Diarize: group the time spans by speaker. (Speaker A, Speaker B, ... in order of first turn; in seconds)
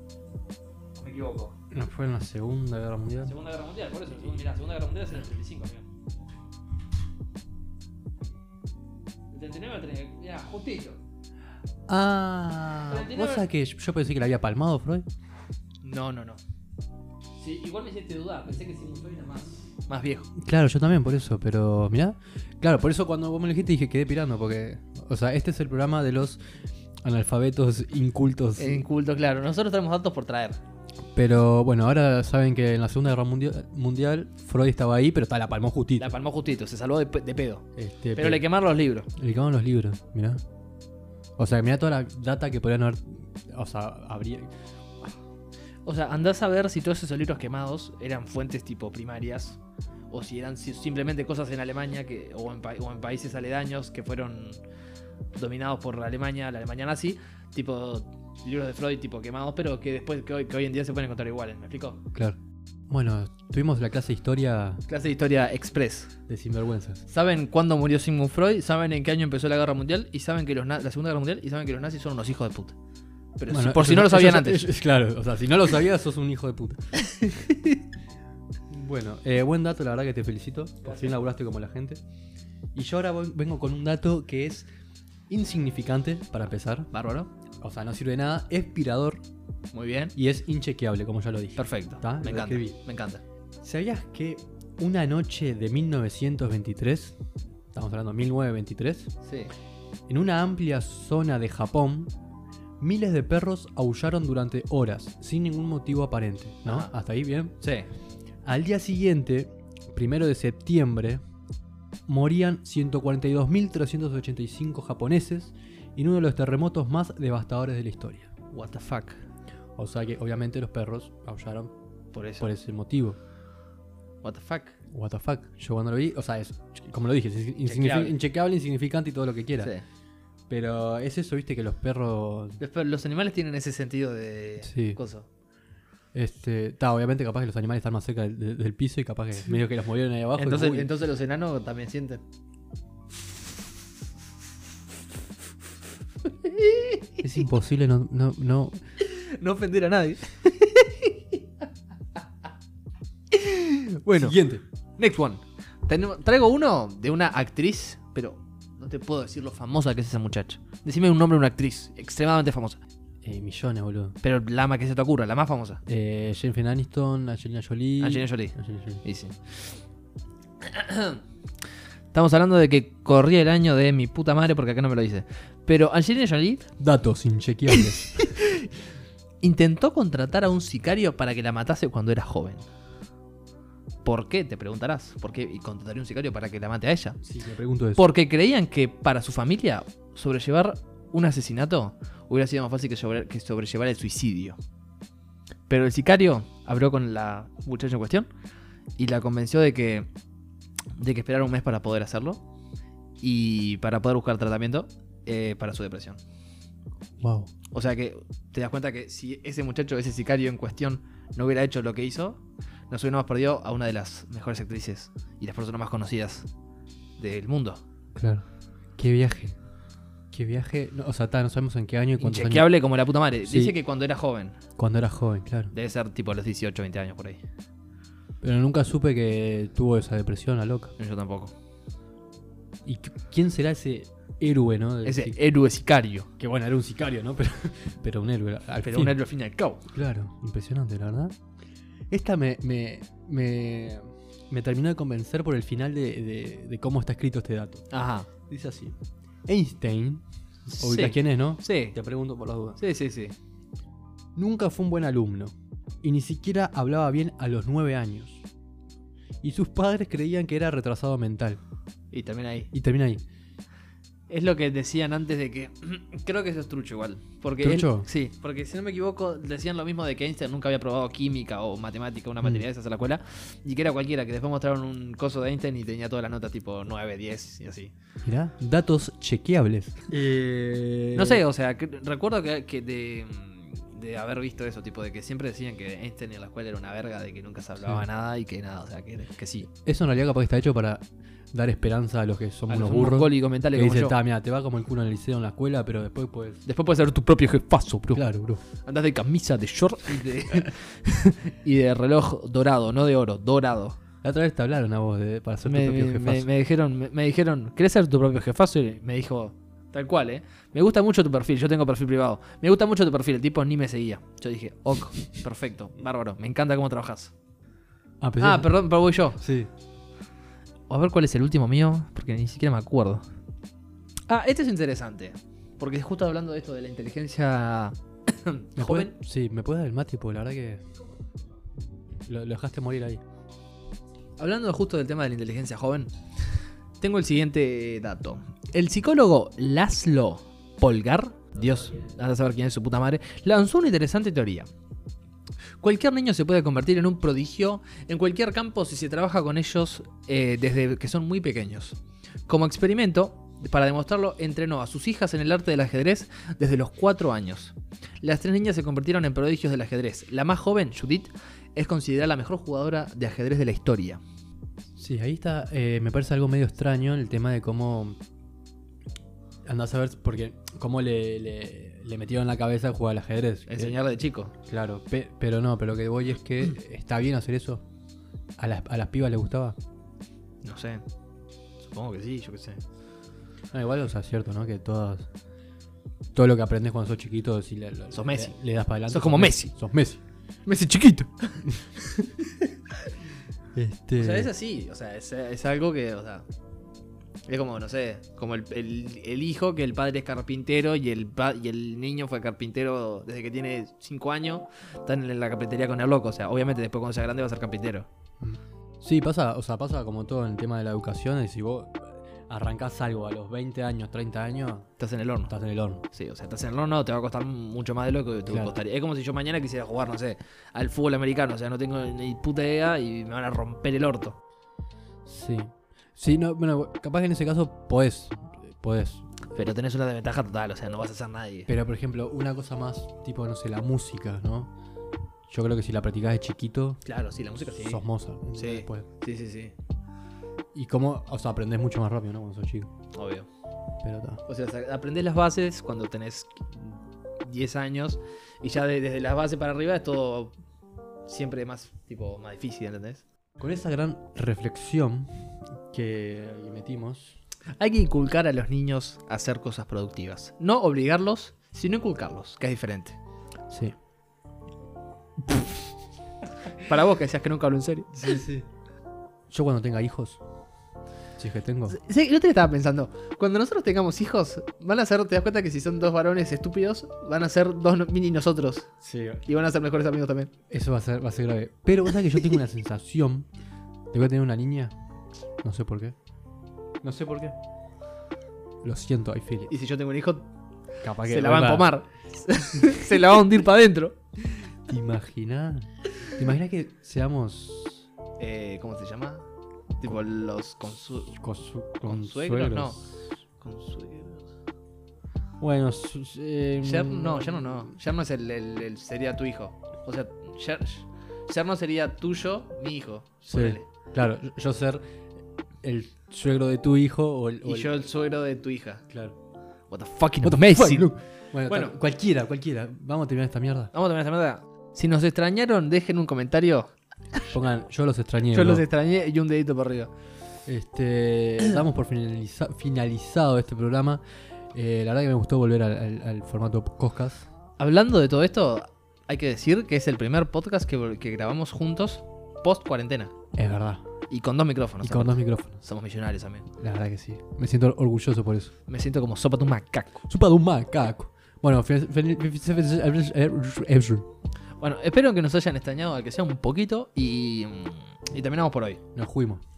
Speaker A: 1.0-1.6, 3.2-5.9, 9.3-11.0, 12.9-13.5, 15.8-16.4, 17.4-20.3, 28.6-30.6, 36.0-37.6, 38.1-39.1, 45.9-49.6, 50.1-54.6, 55.4-62.0, 64.9-66.1, 67.1-72.7, 73.4-74.7, 77.0-77.7, 80.8-81.2, 86.9-87.3, 89.7-90.1, 91.6-93.2, 99.2-99.5, 106.7-106.9, 107.6-107.9, 118.5-119.2, 122.1-122.5, 124.2-124.8, 127.6-128.2, 129.6-129.8, 132.6-135.3, 140.3-142.2, 146.3-147.2, 149.0-151.4, 153.3-154.3, 155.0-162.8, 164.2-165.8, 168.0-169.8, 170.6-171.2, 172.1-176.6, 177.8-178.7, 179.4-182.7, 184.1-187.2, 188.0-194.6, 195.7-198.3, 199.0-200.1, 201.0-202.4, 203.2-206.2, 207.7-216.5, 217.2-217.8, 222.2-224.6, 225.7-227.4, 231.0-231.5, 235.1-236.3, 238.8-239.8, 247.9-248.3, 250.7-251.9, 252.8-253.3, 262.1-262.7, 264.3-277.9, 281.2-289.7, 292.7-294.2, 296.7-298.2, 298.8-304.0, 305.6-317.3, 318.4-319.4, 320.9-323.2, 324.3-329.1, 334.4-336.1, 337.0-344.7, 345.8-364.2, 373.7-374.5, 380.6-381.0, 381.8-382.8, 388.1-388.6, 389.1-389.7, 390.7-391.7, 394.2-396.5, 397.5-408.1, 415.0-415.5, 416.1-424.4, 429.5-431.7, 437.1-438.0, 438.5-439.7, 443.1-443.5, 444.5-450.6, 451.3-453.2, 457.8-463.2, 466.7-468.4, 471.9-478.9, 479.5-480.5, 489.7-490.5, 491.2-494.7, 498.4-499.5, 500.0-501.4, 502.0-503.1, 503.6-504.5, 506.8-513.9, 517.6-519.0, 519.9-521.1, 521.7-522.0, 523.9-526.9, 528.5-530.1, 537.8-543.3, 544.3-546.7, 548.9-550.2, 554.8-559.0
Speaker B: 1.7-3.3, 11.9-15.1, 20.4-26.4, 27.0-28.8, 31.1-36.1, 37.8-38.4, 39.2-40.4, 41.4-45.1, 62.9-64.8, 66.3-67.0, 73.5-76.8, 78.7-82.0, 82.8-84.7, 85.3-86.9, 87.6-89.2, 90.2-92.8, 93.6-97.2, 97.7-99.1, 100.1-102.1, 102.8-107.5, 108.5-111.2, 112.1-118.3, 119.8-121.7, 122.4-123.2, 124.9-129.7, 130.5-132.6, 134.6-135.0, 136.1-140.9, 147.2-148.8, 154.2-154.6, 163.2-164.2, 165.9-169.0, 176.8-178.3, 187.2-188.0, 207.2-207.5, 218.2-218.4, 219.0-219.6, 220.3-222.7, 223.5-223.8, 224.8-225.7, 228.4-230.9, 232.8-235.4, 236.4-239.2, 239.9-241.3, 242.1-247.8, 248.5-252.8, 254.4-258.4, 259.4-261.6, 262.7-263.2, 267.6-268.1, 278.2-281.4, 289.9-296.6, 298.1-298.6, 304.2-306.5, 318.2-318.8, 319.4-319.7, 328.8-330.8, 332.3-333.2, 365.0-368.2, 369.7-374.0, 374.7-377.8, 378.6-379.8, 383.7-385.3, 386.4-390.2, 392.0-392.3, 393.8-394.5, 408.4-414.9, 415.5-416.0, 418.5-418.8, 425.3-429.2, 431.7-434.7, 435.5-437.0, 437.7-439.1, 440.7-442.9, 444.0-444.4, 453.6-455.3, 455.9-457.4, 463.7-463.9, 468.1-468.7, 469.5-470.4, 471.4-472.0, 479.0-479.4, 480.7-483.5, 484.1-484.9, 485.6-486.1, 487.0-487.6, 488.8-489.7, 491.0-491.9, 494.9-498.1, 501.4-503.0, 505.6-507.9, 513.5-515.0, 515.8-518.0, 520.4-523.9, 527.5-528.9, 530.7-534.2, 534.7-537.5, 543.5-544.0, 545.0-545.8, 546.8-548.7, 550.3-554.3, 559.2-559.6